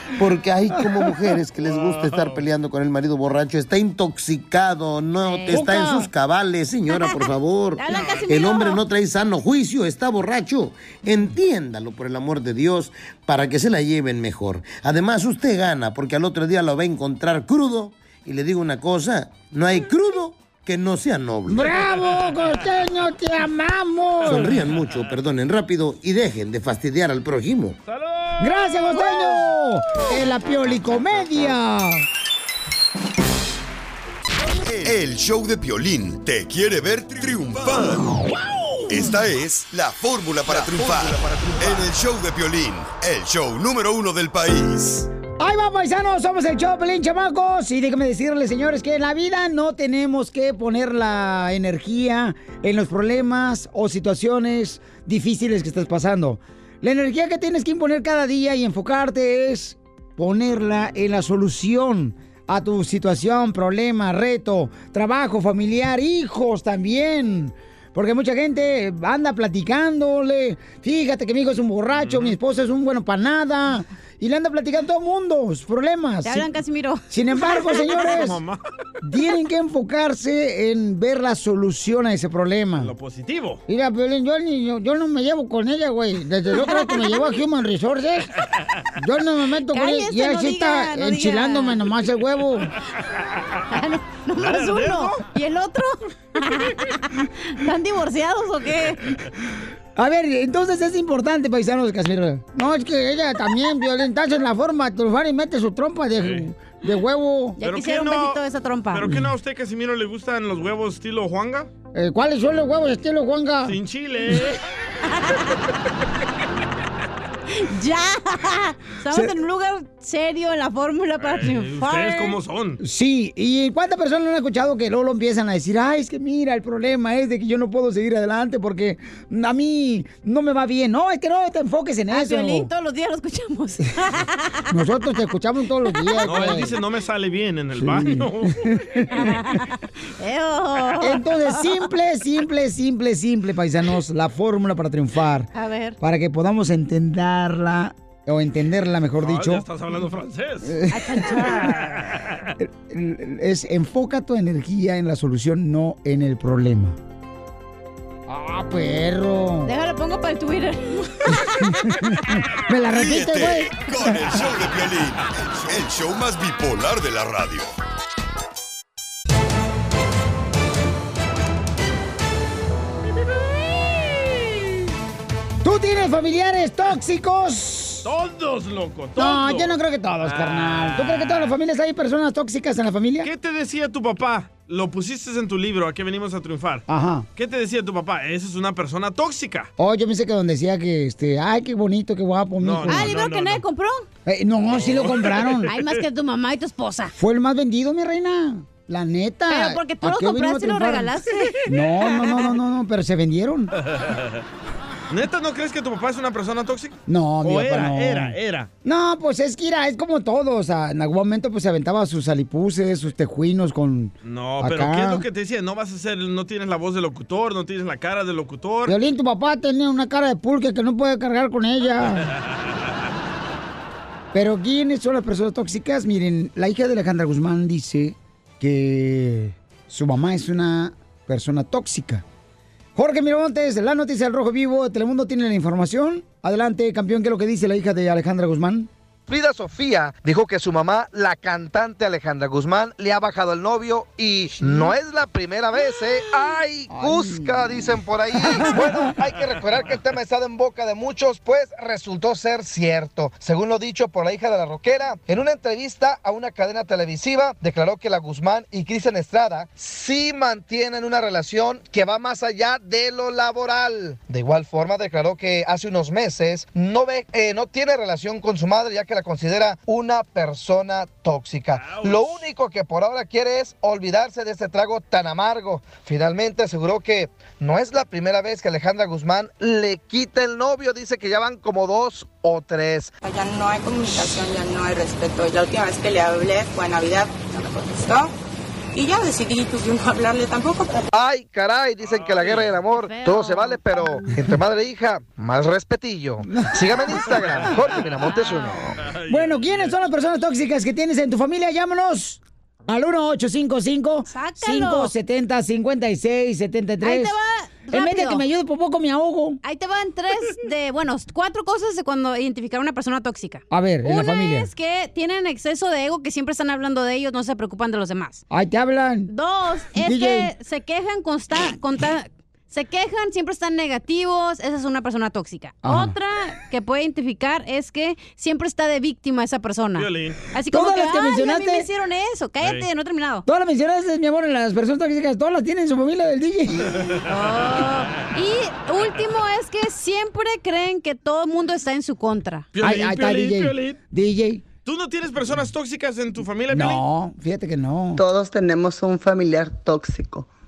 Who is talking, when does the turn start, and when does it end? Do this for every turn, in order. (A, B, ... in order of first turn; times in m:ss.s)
0:00.2-0:21.8 A
0:01.6-0:02.4 B
0:05.2-0:06.1 C
0:05.5-0:06.0 D
0:06.9-0:08.8 C
0:07.9-0:08.2 B
0:21.5-0:24.5 D
0:24.2-0:27.8 A
0:27.9-0:29.1 B
0:28.4-0:32.0 D
0:34.6-0:38.2 E
0:38.9-0:45.1 E
0:45.4-1:16.5 D
1:11.9-1:12.4 B
1:16.2-1:18.0 C
1:17.1-1:18.4 D
1:17.9-1:18.6 B
1:19.0-1:22.9 D
1:22.8-1:23.6 B
1:23.7-1:28.3 D
1:26.5-1:27.2 C
1:29.0-1:32.7 D
1:29.7-1:31.9 C
1:33.7-1:39.1 C
1:34.4-1:35.2 B
1:40.0-1:47.6 D
1:46.2-1:46.5 B
1:47.6-1:49.1 C
1:47.6-1:51.7 B
1:51.9-1:53.8 D
1:53.6-1:54.6 B
1:55.1-1:55.5 C
1:57.5-2:02.4 C
2:01.2-2:02.8 B
2:02.8-2:12.7 D
2:12.1-2:14.7 C
2:14.7-2:16.8 D
2:15.9-2:16.3 C
2:16.2-2:18.8 B
2:17.8-2:19.3 D
2:19.2-2:21.9 C
2:21.0-2:29.7 D
2:25.5-2:26.0 C
2:29.2-2:30.8 B
2:30.6-2:31.8 D
2:30.9-2:31.8 C
2:31.6-2:32.4 B
2:32.6-2:37.0 D
2:38.3-2:39.7 D
2:39.6-2:41.6 C
2:41.3-2:44.4 D
2:42.9-2:47.7 E
2:55.6-2:58.1 D
2:58.0-3:01.5 B
2:59.2-3:03.3 D
3:03.2-3:06.8 B
3:06.9-3:07.3 D
3:07.4-3:09.7 B
3:09.8-3:13.1 D
3:12.6-3:13.6 B
3:12.8-3:14.1 C
3:14.3-3:15.7 D
3:14.7-3:15.9 B
3:15.7-3:17.1 C
3:17.1-3:21.1 D
3:19.5-3:21.6 C
3:21.6-3:23.7 D
3:22.2-3:22.4 C
3:24.0-3:24.4 B
3:25.1-3:28.7 B
3:27.1-3:35.2 D
3:34.2-3:38.9 B
3:38.9-3:42.3 D
3:44.3-3:52.2 D
3:53.0-3:58.9 D
3:59.3-4:43.1 F
4:04.6-4:04.9 D
4:06.9-4:07.8 D
4:08.4-4:08.9 D
4:31.8-4:32.4 B
4:43.2-4:48.3 G
4:48.9-4:51.0 G
4:51.1-4:58.9 F
4:52.0-4:52.7 B
4:52.9-4:53.8 C
4:56.5-4:56.8 D
4:57.3-4:57.7 B
4:58.2-4:58.9 C
4:59.0-5:00.0 B
4:59.3-5:07.3 D
5:04.3-5:05.1 C
5:07.0-5:08.4 C
5:07.9-5:09.6 D
5:09.6-5:18.4 C
5:13.7-5:14.7 D
5:18.5-5:19.3 D
5:19.3-5:33.4 C
5:20.0-5:20.5 D
5:25.8-5:26.2 D
5:30.0-5:30.4 B
5:30.7-5:31.9 D
5:32.6-5:32.9 B
5:33.5-5:37.1 D
5:36.9-5:37.2 B
5:37.3-5:42.7 C
5:42.7-5:44.0 B
5:42.8-5:44.6 D
5:44.8-5:47.0 B
5:46.7-5:48.2 D
5:48.2-5:50.5 H